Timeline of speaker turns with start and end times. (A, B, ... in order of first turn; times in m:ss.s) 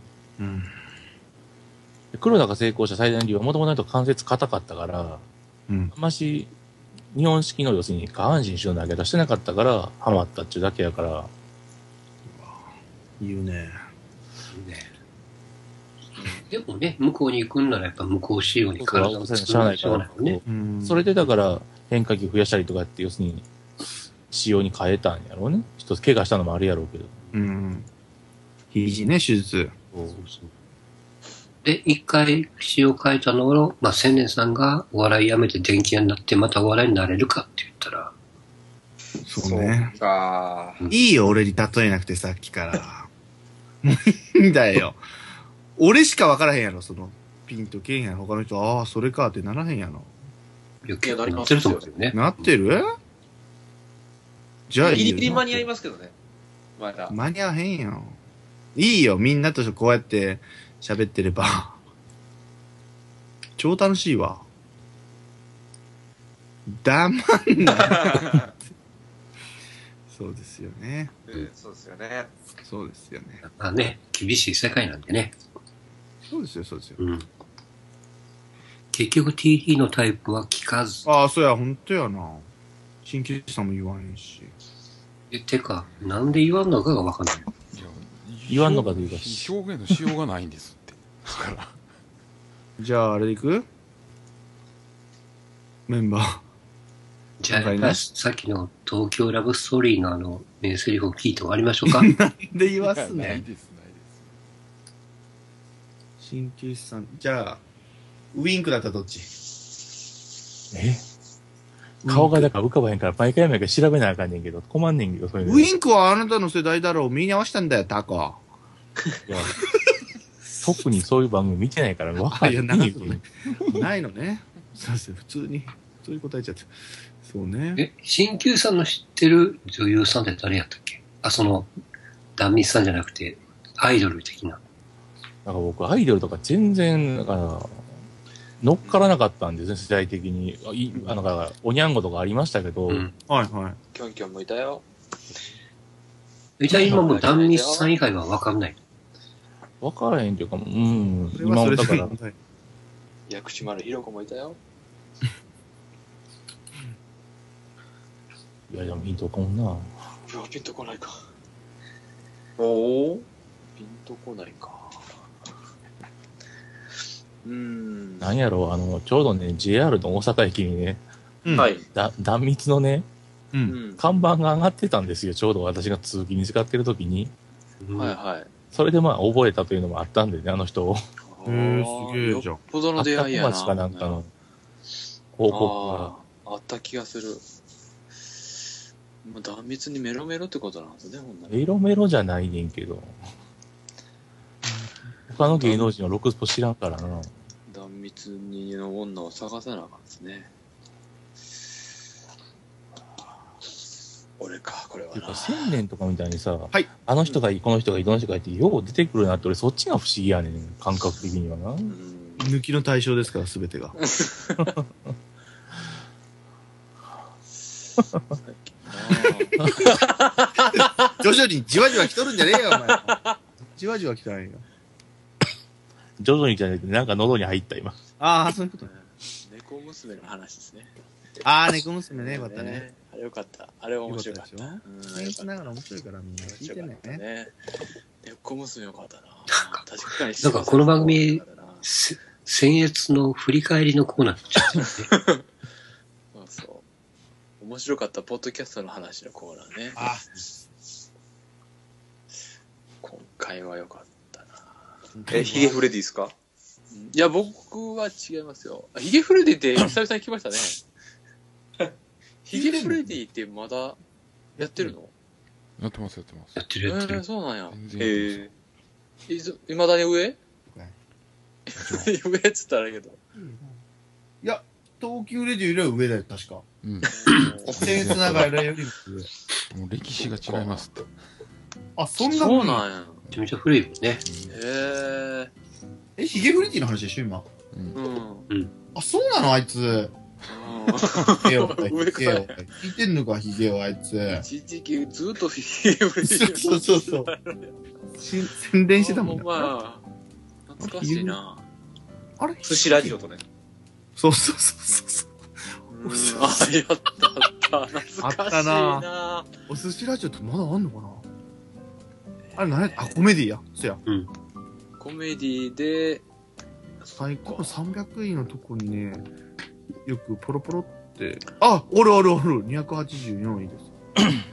0:00.4-0:00.7 A
0:02.1-0:05.2 B
0:05.9-0:06.5 B
0:07.1-0:11.3 B
0:12.3-0:13.8 A
0:14.5-0:14.9 C
0:16.2-0:20.4 C
0:18.8-0:23.5 B
0:20.4-0:21.1 A
0:24.3-0:27.2 B
0:27.3-0:27.9 A
0:28.7-0:29.7 A
0:29.9-0:30.2 B
0:30.1-0:30.5 C
0:31.6-0:38.1 C
0:39.2-0:39.9 A
0:39.4-0:40.8 D
0:40.9-0:43.1 A
0:43.8-0:45.0 A
0:45.8-0:50.1 A
0:50.8-0:52.5 C
0:51.0-0:51.9 D
0:52.1-0:52.9 A
0:54.7-0:55.7 A
0:54.8-0:56.1 D
0:56.8-0:57.2 D
0:57.1-0:58.2 A
0:58.8-1:01.8 A
1:03.6-1:04.5 A
1:06.7-1:08.4 A
1:07.8-1:08.5 D
1:10.1-1:11.1 A
1:11.3-1:12.3 D
1:12.6-1:13.4 A
1:13.4-1:15.4 C
1:16.3-1:17.0 A
1:17.0-1:17.3 C
1:18.9-1:21.1 C
1:21.0-1:22.5 A
1:23.0-1:24.5 A
1:25.3-1:27.5 C
1:27.7-1:31.8 E
1:28.5-1:29.5 B
1:32.8-1:33.6 A
1:35.9-1:36.4 A
1:37.4-1:42.1 C
1:37.5-1:38.0 A
1:41.8-1:43.4 A
1:42.7-1:44.4 E
1:46.2-1:47.6 A
1:48.3-1:49.3 A
1:50.7-1:51.0 B
1:52.0-1:52.5 A
1:52.0-1:55.7 B
1:55.4-1:58.4 A
1:59.3-1:59.6 B
2:00.6-2:03.2 B
2:02.3-2:06.7 A
2:07.2-2:07.8 A
2:07.8-2:11.7 C
2:12.4-2:14.6 C
2:15.4-2:17.8 B
2:18.6-2:23.1 B
2:22.9-2:23.2 C
2:23.3-2:23.8 A
2:23.9-2:24.8 F
2:26.6-2:28.8 C
2:26.8-2:27.9 F
2:29.8-2:32.2 B
2:31.4-2:32.4 A
2:33.3-2:34.6 F
2:38.7-2:39.9 B
2:40.3-2:41.2 F
2:42.6-2:43.2 D
2:43.8-2:45.2 F
2:47.4-2:48.4 F
2:48.2-2:51.0 B
2:51.4-2:51.7 A
2:51.5-2:51.8 D
2:51.9-2:53.1 B
2:53.7-2:54.2 F
2:54.0-2:57.3 B
2:57.8-2:58.2 C
2:58.0-2:58.5 F
2:58.7-3:01.0 B
3:01.3-3:04.2 F
3:01.4-3:02.6 A
3:03.0-3:04.3 B
3:05.3-3:06.1 B
3:05.5-3:07.4 F
3:09.2-3:11.7 F
3:11.5-3:13.2 B
3:15.3-3:17.3 B
3:15.6-3:15.9 F
3:17.7-3:20.5 F
3:24.4-3:25.8 F
3:25.1-3:31.9 B
3:31.9-3:32.5 F
3:32.4-3:34.0 A
3:34.0-3:34.7 F
3:38.4-3:41.2 F
3:40.6-3:44.6 A
3:42.0-3:43.4 F
3:46.2-3:48.0 B
3:48.2-3:48.9 A
3:48.8-3:50.9 F
3:51.4-3:52.9 A
3:52.1-3:55.5 F
3:54.0-3:57.2 A
3:56.4-3:57.5 F
3:58.2-4:01.9 F
3:59.5-3:59.8 C
4:00.4-4:05.1 C
4:04.7-4:05.4 F
4:06.3-4:06.8 F
4:07.6-4:10.0 F
4:10.0-4:10.3 A
4:13.0-4:14.8 F
4:15.1-4:15.8 A
4:15.3-4:16.3 D
4:16.9-4:20.8 F
4:22.4-4:24.0 F
4:22.5-4:23.2 A
4:24.6-4:24.9 A
4:24.6-4:25.1 F
4:25.8-4:26.6 E
4:26.6-4:27.2 C
4:26.8-4:27.8 F
4:27.7-4:28.4 E
4:28.0-4:28.5 D
4:29.3-4:30.4 F
4:30.7-4:30.9 A
4:31.7-4:33.2 F
4:31.7-4:32.2 E
4:33.4-4:33.8 A
4:34.4-4:36.6 A
4:36.8-4:37.1 E
4:37.0-4:37.6 D
4:37.1-4:38.1 F
4:37.7-4:39.3 A
4:37.7-4:38.6 E
4:39.7-4:41.1 E
4:40.2-4:40.8 F
4:42.0-4:42.8 A
4:42.2-4:43.2 F
4:43.3-4:44.2 C
4:44.2-4:44.5 E
4:44.5-4:45.5 F
4:46.2-4:47.4 A
4:47.7-4:48.0 E
4:47.9-4:48.5 F
4:48.5-4:48.7 C
4:48.9-4:50.1 A
4:50.5-4:52.6 F
4:51.2-4:54.4 A
4:54.4-4:57.7 F
4:56.2-4:57.3 A
4:58.2-4:59.7 A
4:59.0-5:00.0 F
5:00.7-5:01.6 F
5:00.8-5:01.4 A
5:02.4-5:03.2 A
5:02.6-5:03.4 D
5:04.2-5:05.3 A
5:05.9-5:09.5 F
5:06.0-5:06.7 A
5:08.2-5:09.1 A
5:09.7-5:11.2 A
5:12.5-5:13.3 F
5:12.6-5:14.0 A
5:14.0-5:14.3 C
5:15.0-5:16.2 F
5:17.0-5:17.8 F
5:17.2-5:19.3 A
5:20.0-5:23.9 A